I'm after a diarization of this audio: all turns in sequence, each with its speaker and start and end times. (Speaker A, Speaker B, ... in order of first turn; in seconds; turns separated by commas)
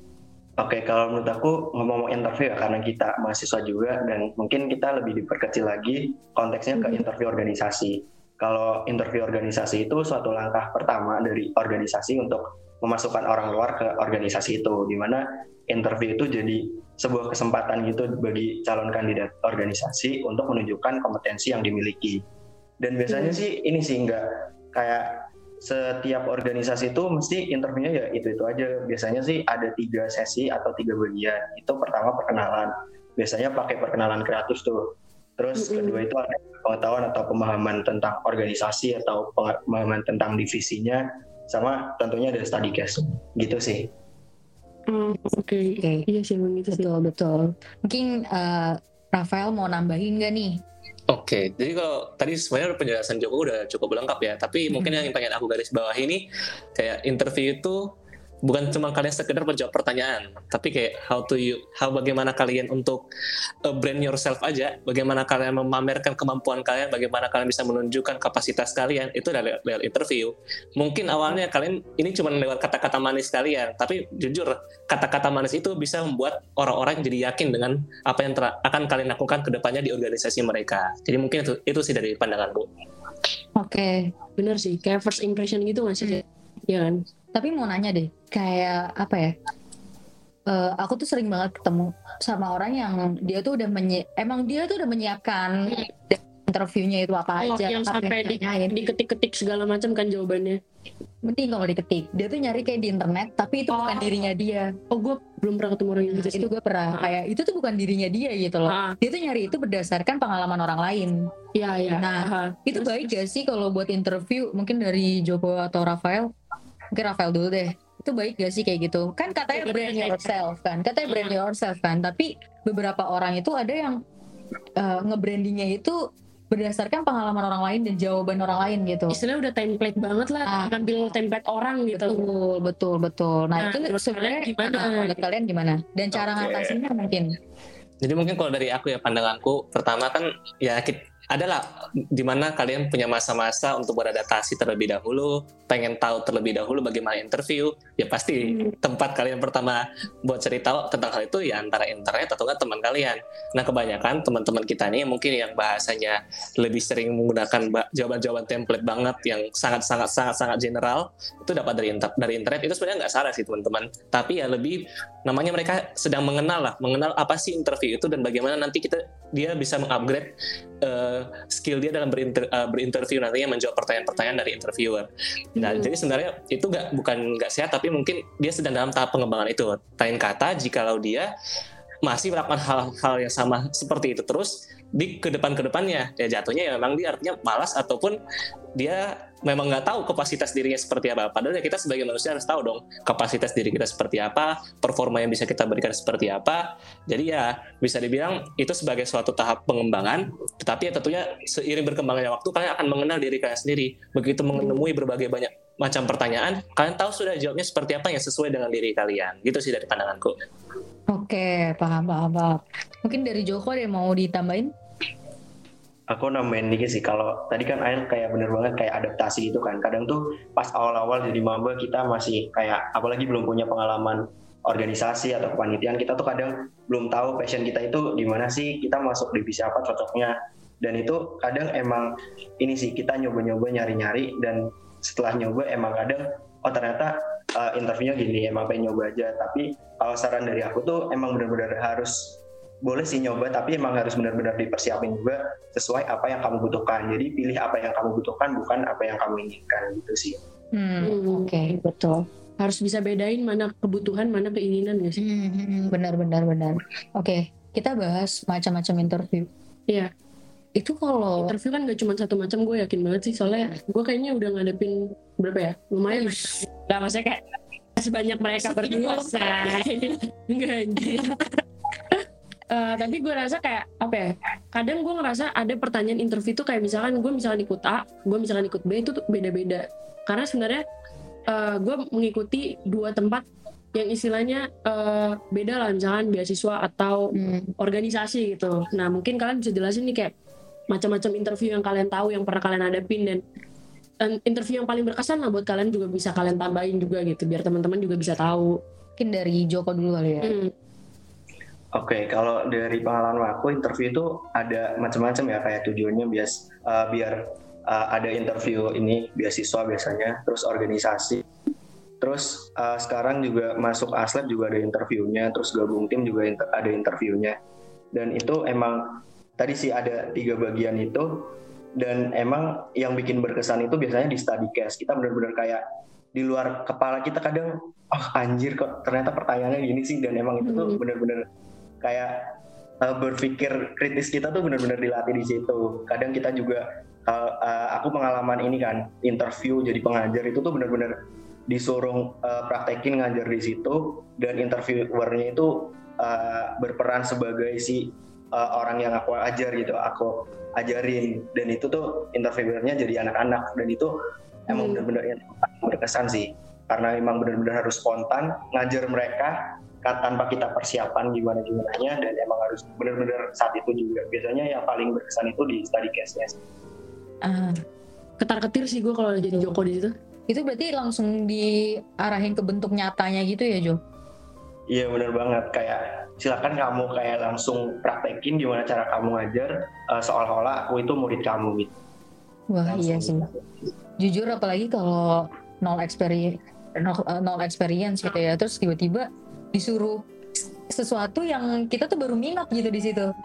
Speaker A: 0.6-22.2, Speaker A: 22.8-43.9, Speaker B: 35.6-36.0, Speaker B: 44.9-46.9, Speaker C: 45.8-46.1, Speaker C: 46.7-50.6, Speaker D: 51.1-57.9, Speaker C: 54.7-55.0, Speaker D: 58.4-63.0, Speaker D: 63.6-82.7, Speaker C: 83.6-84.1, Speaker B: 84.4-87.0, Speaker C: 87.3-89.3, Speaker C: 90.5-98.8, Speaker B: 97.4-100.6, Speaker C: 101.2-104.7, Speaker B: 103.7-104.1, Speaker B: 104.9-107.1, Speaker C: 106.1-111.3, Speaker B: 108.7-109.0, Speaker B: 111.5-113.1, Speaker C: 112.0-116.3, Speaker C: 116.9-124.0, Speaker B: 119.5-120.3, Speaker C: 124.8-126.0, Speaker C: 126.5-129.2, Speaker B: 129.1-132.2, Speaker C: 130.5-130.7, Speaker C: 131.9-137.3, Speaker B: 133.6-135.2, Speaker D: 136.2-136.8, Speaker D: 138.0-181.3, Speaker B: 175.6-175.9, Speaker D: 182.0-188.2, Speaker D: 188.8-210.3, Speaker C: 211.1-214.7, Speaker A: 216.1-250.4, Speaker C: 250.8-252.1, Speaker B: 251.0-255.2, Speaker C: 255.2-259.5, Speaker C: 260.8-261.5, Speaker B: 261.4-267.4, Speaker C: 266.1-266.6, Speaker B: 268.0-271.4, Speaker C: 268.7-269.3, Speaker B: 272.1-280.8, Speaker B: 281.5-290.3, Speaker C: 287.3-287.7, Speaker B: 290.9-293.4, Speaker B: 294.2-298.8, Speaker C: 299.2-300.6, Speaker B: 300.4-300.7, Speaker A: 302.0-311.4, Speaker A: 312.2-317.6, Speaker A: 318.1-325.8, Speaker A: 326.3-331.5, Speaker B: 330.6-331.0, Speaker A: 332.0-341.2, Speaker A: 341.7-354.2, Speaker A: 354.7-366.6, Speaker B: 354.7-355.1, Speaker C: 367.4-367.8, Speaker B: 368.4-370.1, Speaker C: 370.5-374.0, Speaker A: 374.9-381.9, Speaker C: 382.7-383.4, Speaker A: 382.9-383.6, Speaker C: 384.2-390.2, Speaker C: 390.9-393.3